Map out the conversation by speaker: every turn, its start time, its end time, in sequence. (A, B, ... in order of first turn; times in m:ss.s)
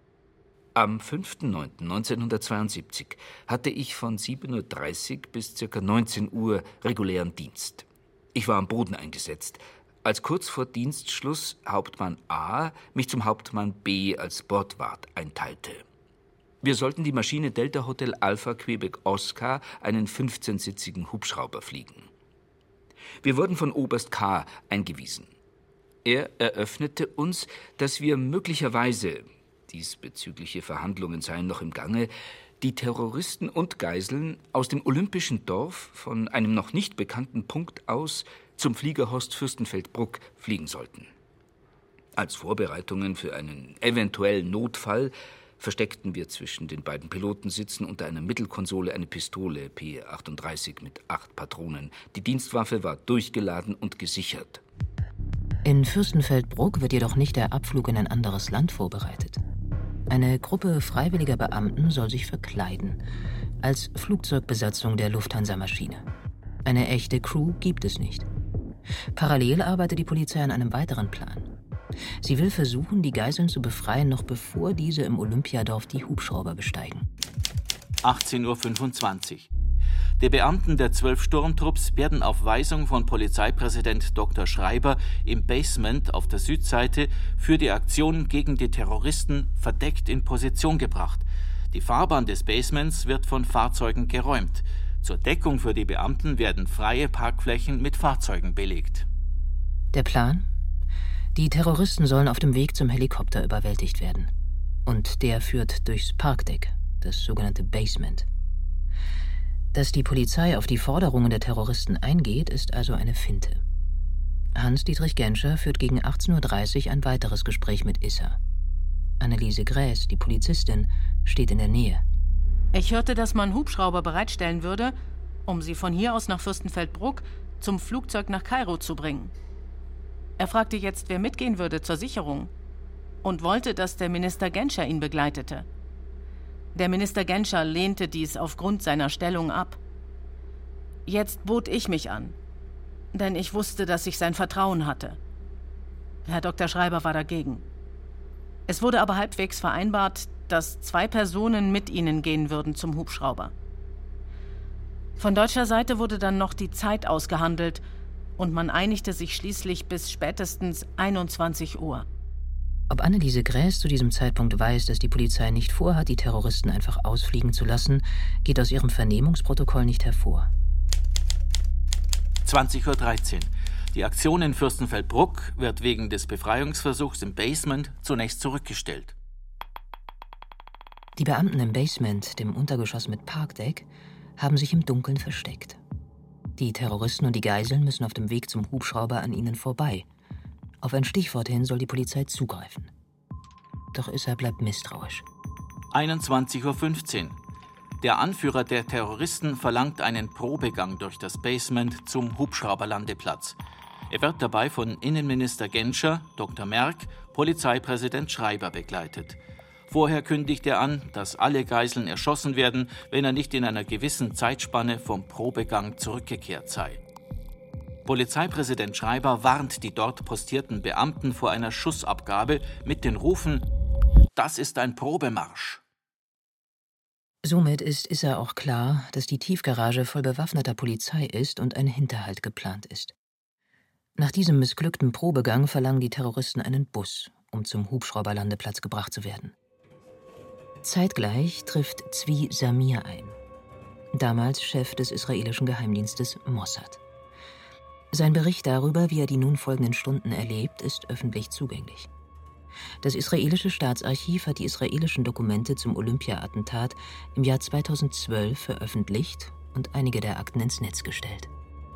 0:00.8-0:15.8 A
0:16.6-0:22.1 A
0:23.2-0:25.3 A
0:26.0-0:41.1 A
0:42.2-0:54.6 A
0:55.6-0:59.4 B
1:00.1-1:03.0 B
1:03.6-1:06.0 B
1:06.6-1:08.3 B
1:09.2-1:11.5 B
1:12.2-1:17.1 B
1:18.0-1:19.5 C
1:20.2-1:39.1 C
1:39.9-1:40.5 B
1:41.4-1:44.3 B
1:44.9-1:48.3 B
1:49.7-1:53.6 B
1:54.6-1:58.4 B
1:59.2-2:02.0 B
2:02.7-2:09.3 D
2:10.4-2:12.5 D
2:13.2-2:15.7 D
2:16.7-2:19.8 D
2:21.1-2:22.4 D
2:23.1-2:25.2 D
2:26.2-2:27.6 D
2:28.7-2:33.5 D
2:35.2-2:37.8 D
2:38.4-2:42.1 D
2:42.9-2:50.5 B
2:52.4-2:59.2 C
3:01.2-3:03.9 B
3:04.4-3:05.8 B
3:06.6-3:10.1 B
3:10.8-3:12.9 B
3:13.9-3:15.2 B
3:15.9-3:17.4 C
3:18.0-3:23.6 C
3:24.1-3:37.0 C
3:38.0-3:43.7 C
3:44.4-3:45.8 C
3:47.4-3:53.1 B
3:54.2-3:59.5 B
4:00.8-4:03.4 B
4:04.1-4:07.0 B
4:08.1-4:12.1 B
4:13.0-4:21.5 B